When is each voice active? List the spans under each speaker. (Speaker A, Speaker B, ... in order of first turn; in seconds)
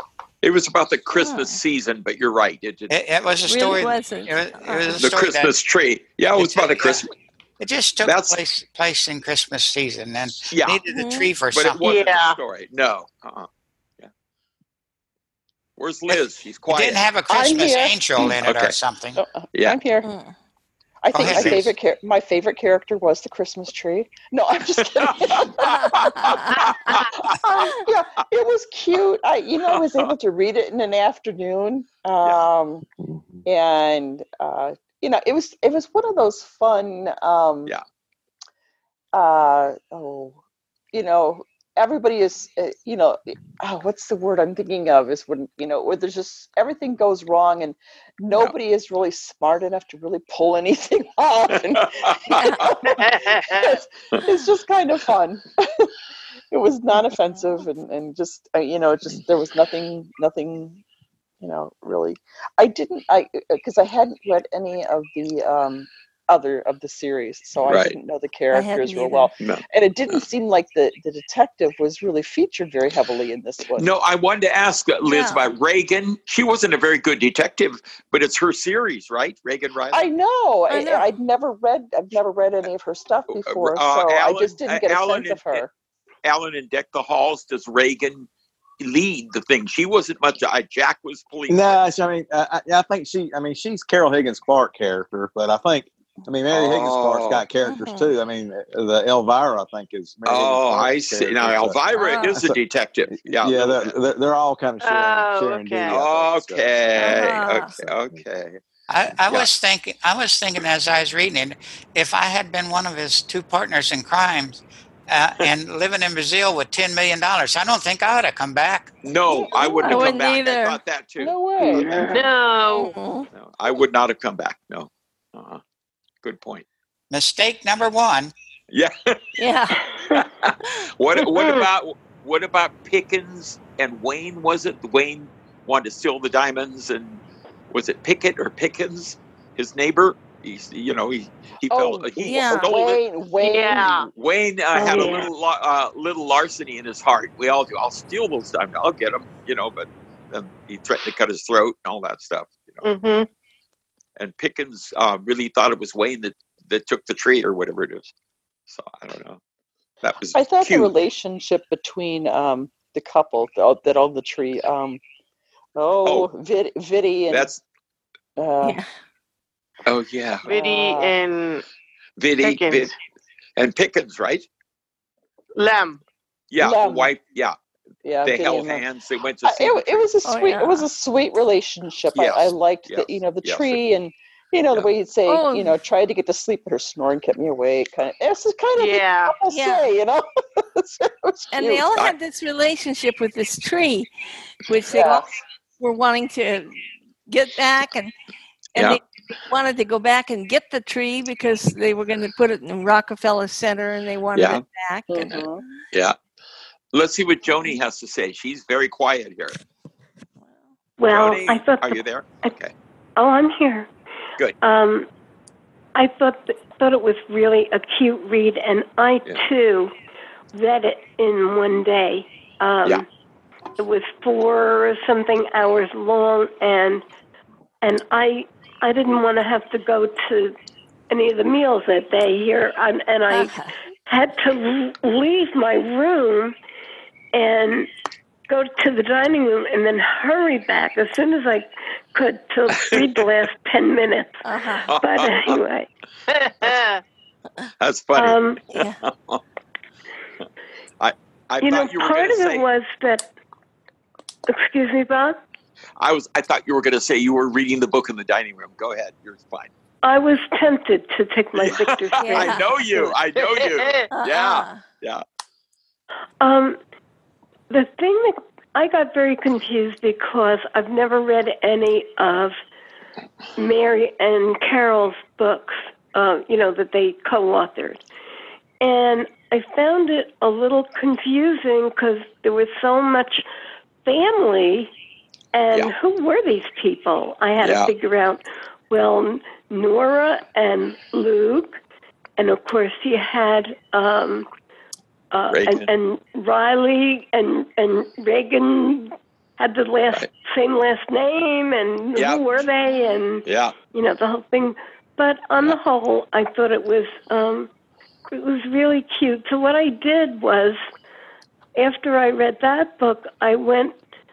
Speaker A: 0.4-2.9, 5.0-7.1, 8.0-8.4, 10.5-10.8, 11.5-13.5, 15.8-17.0, 18.4-18.8, 19.5-19.8, 21.2-21.7, 25.0-27.3, 29.7-30.1, 32.2-32.5, 51.7-52.7, 67.7-68.0, 69.4-70.2, 73.8-80.1, 83.5-85.6, 86.2-88.3, 88.8-91.8, 96.5-97.5, 100.3-103.9, 105.9-108.6, 119.0-121.3, 123.3-125.6, 126.2-126.7, 128.7-129.2, 130.1-143.0, 144.2-152.8, 154.2-158.1, 158.7-159.4, 160.0-160.9, 167.3-167.6, 169.9-170.5, 172.2-172.9, 173.6-174.5, 176.5-177.6, 178.2-180.1, 182.2-183.8, 198.8-199.0, 204.3-204.6, 205.2-206.2, 206.9-209.6, 211.1-212.7, 242.8-243.1, 244.9-245.6, 247.8-249.4, 251.0-252.7, 256.0-259.7, 261.6-265.2, 287.6-287.9, 295.5-295.9, 302.2-302.6, 303.4-303.7
Speaker B: 1.1-1.6, 3.5-5.0, 10.9-11.3, 20.0-20.4, 25.6-26.7, 57.4-57.7, 68.5-69.3, 75.0-75.5, 80.7-81.1, 97.6-98.2, 102.0-102.4, 107.0-107.7, 119.8-120.8, 122.7-123.3, 129.4-129.8, 142.2-142.8, 168.6-168.9, 180.2-180.9, 185.3-185.8, 189.5-189.9, 191.5-194.1, 194.7-198.1, 198.8-205.4, 233.3-233.7, 244.4-245.0, 248.7-249.0, 262.2-262.7, 264.1-264.8
Speaker C: 2.9-5.5, 6.3-11.9, 16.7-19.2, 21.1-21.7, 108.9-118.9, 127.1-128.3
Speaker D: 11.8-12.4, 52.9-53.8, 104.8-106.0, 122.0-122.9, 131.2-131.7, 143.4-144.1, 152.8-153.3, 170.5-171.6, 172.4-172.9, 175.6-176.0, 188.8-189.4, 246.3-247.0, 263.4-264.1
Speaker E: 17.3-18.4, 19.2-20.1, 21.0-32.9, 33.5-37.8, 39.1-40.4, 40.9-55.9, 56.5-60.8, 61.4-73.9, 79.9-85.7, 119.3-120.2, 121.2-122.3, 141.7-144.1, 160.3-165.0, 165.8-167.5, 168.4-168.8, 170.5-171.2, 176.6-177.1, 178.1-178.8, 179.4-191.9, 194.9-195.3, 205.1-205.6
Speaker F: 91.5-101.8, 103.1-108.2
Speaker G: 121.6-122.2, 144.8-145.3, 211.0-212.6, 213.2-213.9, 214.6-215.1, 215.9-219.9, 220.5-223.1, 223.8-227.0, 227.8-230.6, 231.1-236.6, 237.3-237.9, 238.5-244.4, 245.0-245.9, 248.2-248.6, 251.6-253.3, 254.5-255.4, 260.0-263.1, 266.4-266.8, 267.7-272.6, 273.6-278.0, 278.8-283.4, 284.1-284.9, 285.5-291.8, 292.4-294.5, 295.3-307.7, 308.3-310.8, 311.8-314.0